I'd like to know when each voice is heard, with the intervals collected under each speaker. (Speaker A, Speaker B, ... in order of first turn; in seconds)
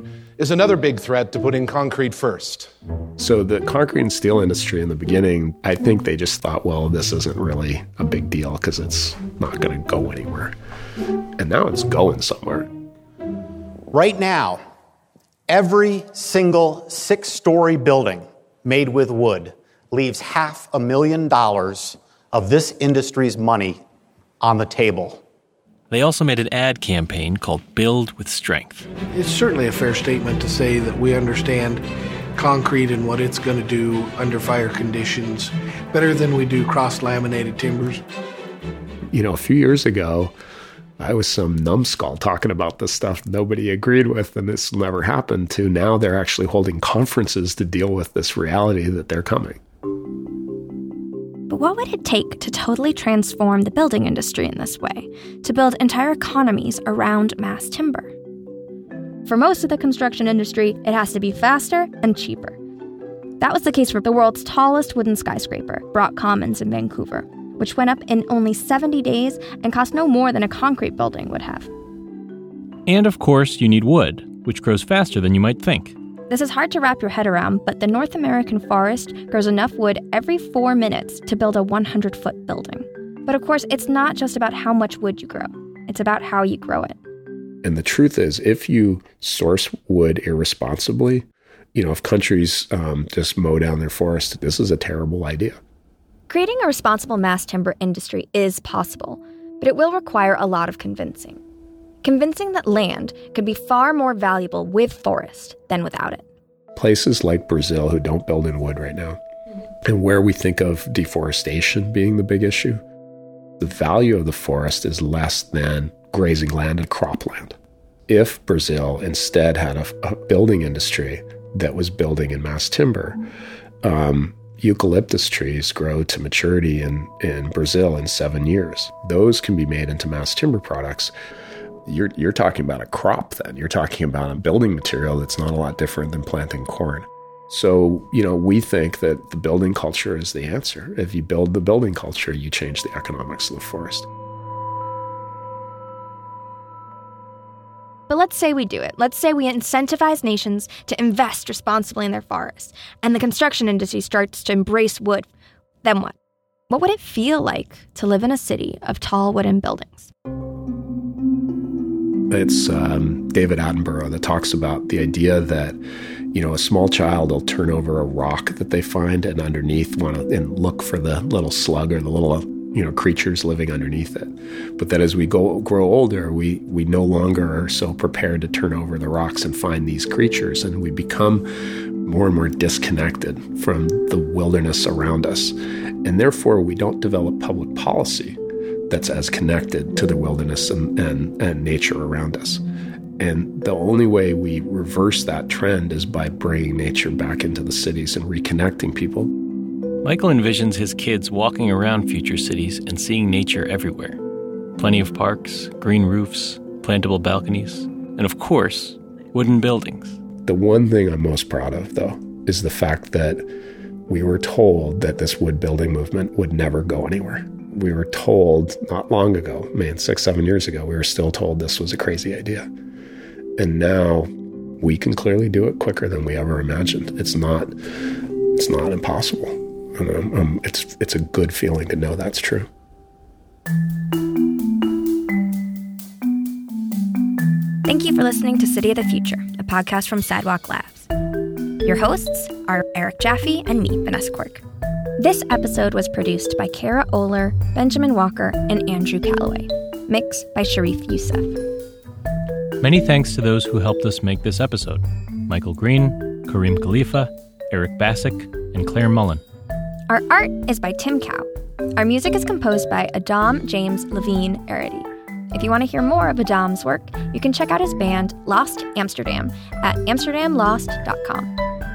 Speaker A: 0.4-2.7
Speaker B: 3.2-10.6, 11.4-12.7, 39.1-40.3, 41.0-49.6, 87.6-95.6, 106.8-109.2, 109.8-112.8, 113.6-117.6, 118.1-123.2, 123.8-131.1, 131.9-144.1, 162.3-165.8, 166.3-181.5, 182.1-188.4, 188.9-192.6, 193.2-199.3, 210.4-213.5, 214.1-222.7, 223.6-224.3, 224.8-227.8, 228.6-232.7
Speaker C: 13.9-14.6, 15.5-23.8, 24.4-25.2
Speaker D: 25.9-28.9, 72.9-76.0, 200.0-204.2, 204.8-210.2, 252.8-259.4
Speaker E: 29.2-31.8, 32.4-38.0
Speaker F: 51.5-58.1, 59.2-62.6, 63.4-71.7, 76.3-87.0, 96.3-101.4, 102.0-106.2, 148.1-155.3, 155.8-156.2, 156.7-160.1, 237.8-241.1, 241.8-244.6, 245.2-251.6, 260.1-271.5